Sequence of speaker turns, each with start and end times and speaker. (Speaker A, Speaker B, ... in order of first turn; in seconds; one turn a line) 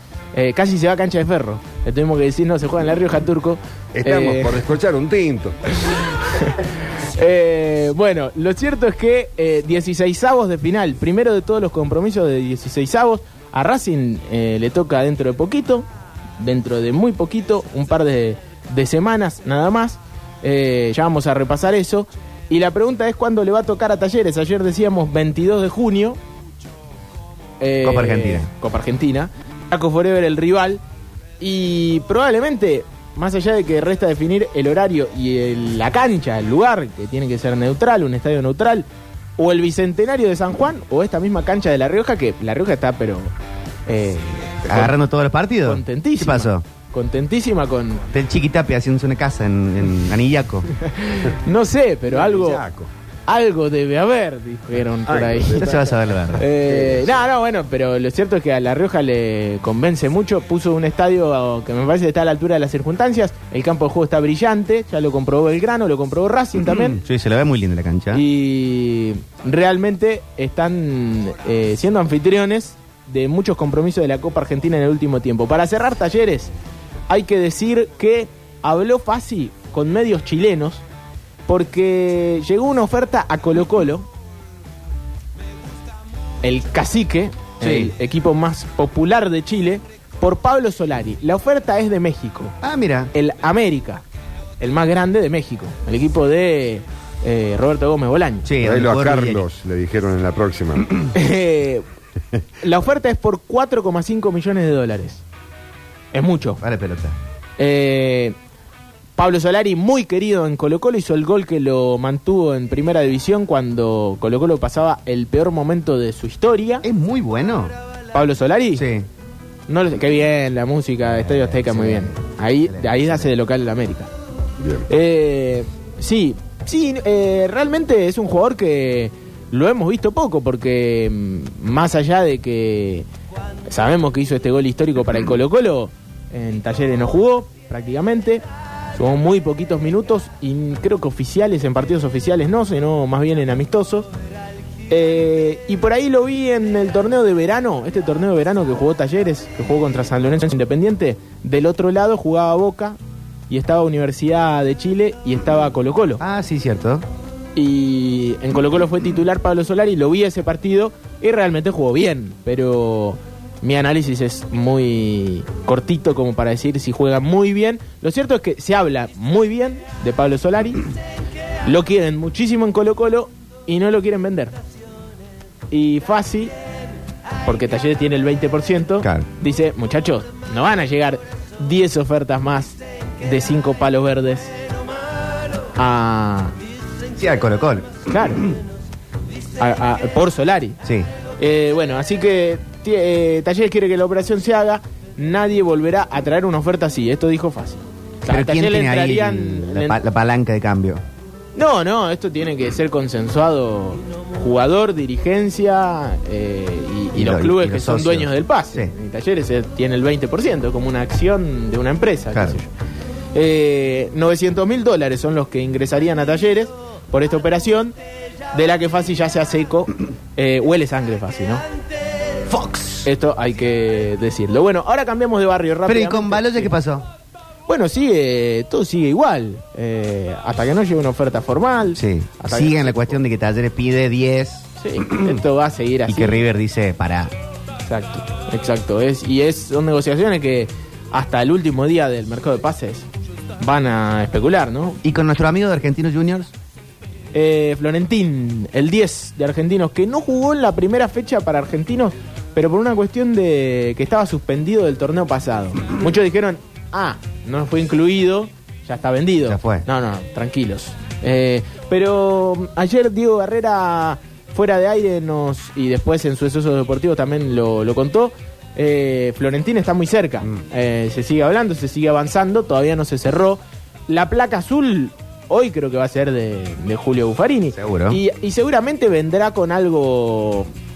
Speaker A: 0.3-4.7
Speaker B: 3.9-5.6
Speaker A: 5.9-6.6
Speaker A: 7.1-15.9
Speaker A: 16.4-26.2
Speaker A: 27.6-30.8
Speaker C: 27.8-28.5
Speaker A: 31.4-38.9
Speaker A: 39.4-43.3
Speaker A: 43.9-45.0
Speaker C: 44.7-46.6
Speaker A: 45.6-48.0
Speaker C: 48.1-50.7
Speaker A: 50.8-52.6
Speaker B: 52.1-52.9
Speaker A: 53.3-67.0
Speaker B: 55.0-55.9
Speaker C: 55.5-56.5
Speaker B: 56.6-57.1
Speaker C: 66.7-68.2
Speaker A: 68.1-76.5
Speaker A: 77.1-80.8
Speaker A: 81.5-84.1
Speaker A: 86.4-92.5
Speaker C: 87.6-87.9
Speaker C: 92.6-93.1
Speaker A: 93.1-94.0
Speaker A: 94.6-98.5
Speaker C: 98.4-99.4
Speaker B: 98.6-101.1
Speaker A: 101.1-101.8
Speaker A: 102.6-105.2
Speaker A: 106.1-106.6
Speaker C: 106.6-107.2
Speaker A: 107.6-108.3
Speaker A: 109.2-116.8
Speaker C: 116.8-117.7
Speaker A: 118.1-118.8
Speaker C: 118.7-119.1
Speaker A: 119.7-124.1
Speaker C: 121.1-123.3
Speaker B: 124.6-124.8
Speaker A: 124.9-133.1
Speaker A: 133.7-138.4
Speaker A: 138.9-144.1
Speaker A: 144.9-153.0
Speaker A: 153.5-156.2
Speaker C: 156.2-157.0
Speaker A: 157.6-170.8
Speaker A: 171.6-174.6
Speaker A: 175.7-176.5
Speaker A: 177.4-184.5
Speaker C: 179.0-179.3
Speaker A: 185.8-186.5
Speaker C: 187.2-188.0
Speaker A: 188.1-188.5
Speaker A: 189.6-190.8
Speaker A: 191.4-200.0
Speaker C: 198.3-201.0
Speaker A: 201.6-212.7
Speaker C: 207.1-208.9
Speaker C: 212.3-212.6
Speaker A: 213.3-217.9
Speaker A: 218.5-221.6
Speaker C: 222.5-223.1
Speaker A: 223.0-226.7
Speaker C: 225.8-227.1
Speaker A: 227.7-233.2
Speaker C: 231.9-235.4
Speaker A: 234.8-236.4
Speaker C: 236.1-237.3
Speaker A: 237.9-243.1
Speaker A: 243.6-245.0
Speaker C: 245.0-246.5
Speaker A: 247.3-280.7
Speaker C: 259.4-259.8
Speaker C: 277.7-278.2